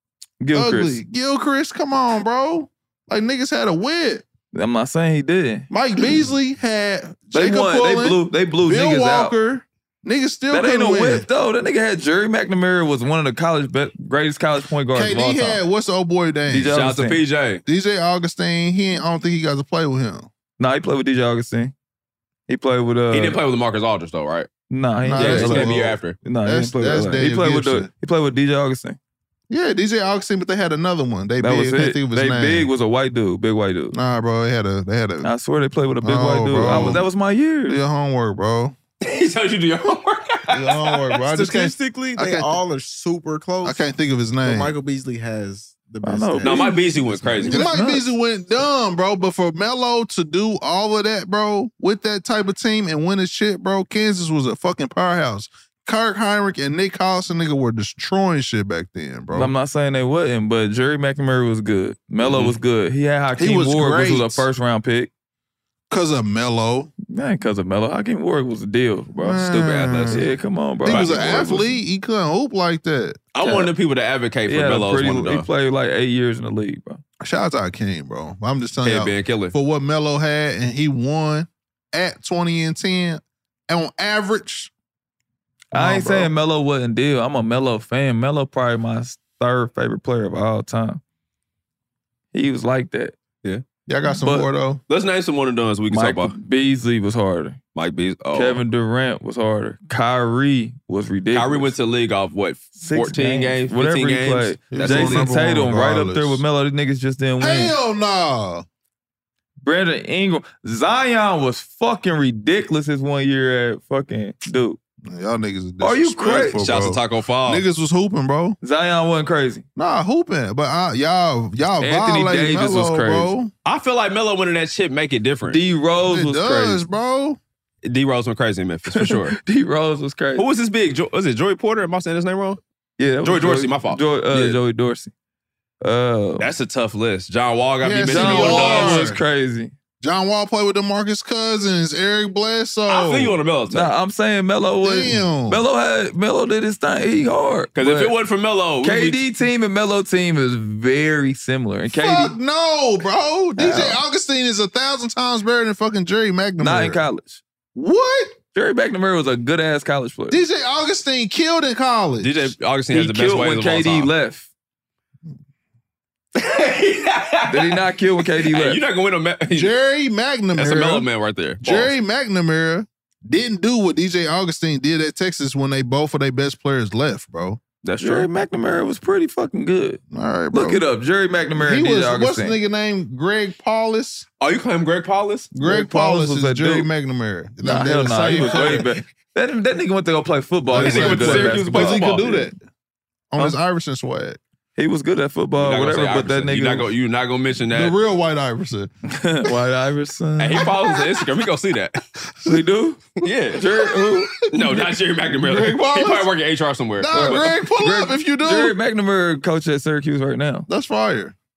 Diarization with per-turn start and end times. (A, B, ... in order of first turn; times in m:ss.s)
0:00.4-0:01.0 A
0:00.5-0:04.2 B
0:04.5-0:06.0 A
0:05.7-0:11.2 B
0:07.3-0:09.3 A
0:10.5-0:15.6 A
0:14.9-0:16.8 B
0:16.5-0:17.2 A
0:16.7-0:17.6 C
0:17.6-0:20.3 B
0:20.6-0:21.7 A
0:22.5-0:23.4 A
0:23.1-0:24.5 C
0:24.7-0:29.0 A
0:25.0-0:27.9 B
0:25.2-0:26.2 C
0:29.5-0:32.7 B
0:31.4-0:34.0 A
0:33.9-0:35.3 B
0:35.2-0:37.8 A
0:36.0-0:37.0 B
0:37.7-0:38.8 B
0:39.0-0:41.1 C
0:40.5-0:42.5 B
0:41.3-0:43.8 D
0:43.6-0:44.7 B
0:44.4-0:47.5 D
0:46.0-0:46.8 A
0:46.4-0:47.6 C
0:47.4-0:59.5 B
0:47.4-0:48.0 A
0:59.3-1:05.1 A
1:02.2-1:02.6 C
1:03.3-1:04.5 B
1:05.9-1:06.9 B
1:07.1-1:11.7 A
1:09.2-1:10.2 B
1:09.6-1:10.3 C
1:10.8-1:13.2 B
1:10.8-1:11.3 C
1:13.3-1:15.5 C
1:13.4-1:13.7 A
1:14.5-1:17.0 A
1:17.2-1:24.7 B
1:18.8-1:19.5 C
1:25.7-1:26.3 B
1:25.7-1:31.0 A
1:32.3-1:33.1 A
1:33.9-1:34.8 B
1:34.1-1:34.5 A
1:34.9-1:36.3 C
1:35.9-1:37.6 A
1:37.7-1:38.6 C
1:38.3-1:41.7 A
1:41.3-1:45.2 C
1:42.8-1:47.7 A
1:44.7-1:46.4 B
1:47.4-1:48.6 B
1:49.6-1:54.8 A
1:55.0-1:58.6 B
1:55.8-1:56.7 A
1:56.6-1:57.6 C
1:58.6-1:59.6 A
1:59.8-2:03.5 B
2:01.8-2:03.3 A
2:03.6-2:05.6 C
2:05.5-2:06.8 A
2:06.0-2:07.4 B
2:07.8-2:09.4 C
2:08.9-2:10.4 A
2:10.4-2:12.6 C
2:13.0-2:15.1 A
2:13.2-2:14.6 C
2:15.8-2:16.5 A
2:16.4-2:19.1 C
2:17.8-2:19.2 B
2:18.0-2:19.7 A
2:20.0-2:23.4 B
2:22.9-2:23.9 C
2:23.7-2:28.1 A
2:24.8-2:25.6 B
2:27.7-2:29.2 C
2:28.8-2:32.3 A
2:31.9-2:37.0 B
2:33.6-2:34.0 A
2:36.6-2:37.4 A
2:37.7-2:38.4 B
2:38.5-2:40.4 A
2:40.3-2:42.5 B
2:42.2-2:44.1 C
2:42.9-2:44.5 A
2:46.4-2:47.8 C
2:47.5-2:48.8 A
2:48.4-2:49.7 C
2:49.5-2:51.1 B
2:50.5-2:51.9 C
2:51.6-2:57.6 B
2:57.8-2:58.3 C
2:58.0-3:00.0 A
3:00.1-3:00.8 B
3:00.5-3:02.6 A
3:01.6-3:04.2 B
3:04.4-3:05.5 C
3:05.5-3:08.9 B
3:05.6-3:06.9 A
3:07.6-3:12.0 A
3:10.7-3:12.6 B
3:10.7-3:12.5 C
3:13.3-3:14.4 B
3:14.8-3:16.9 A
3:15.6-3:18.0 C
3:17.7-3:18.9 B
3:19.2-3:20.7 A
3:20.4-3:22.0 C
3:20.7-3:21.0 B
3:22.4-3:23.0 A
3:23.2-3:23.6 C
3:23.5-3:24.3 A
3:24.5-3:27.4 C
3:24.6-3:26.3 B
3:27.0-3:28.8 B
3:27.1-3:30.7 A
3:30.7-3:31.3 B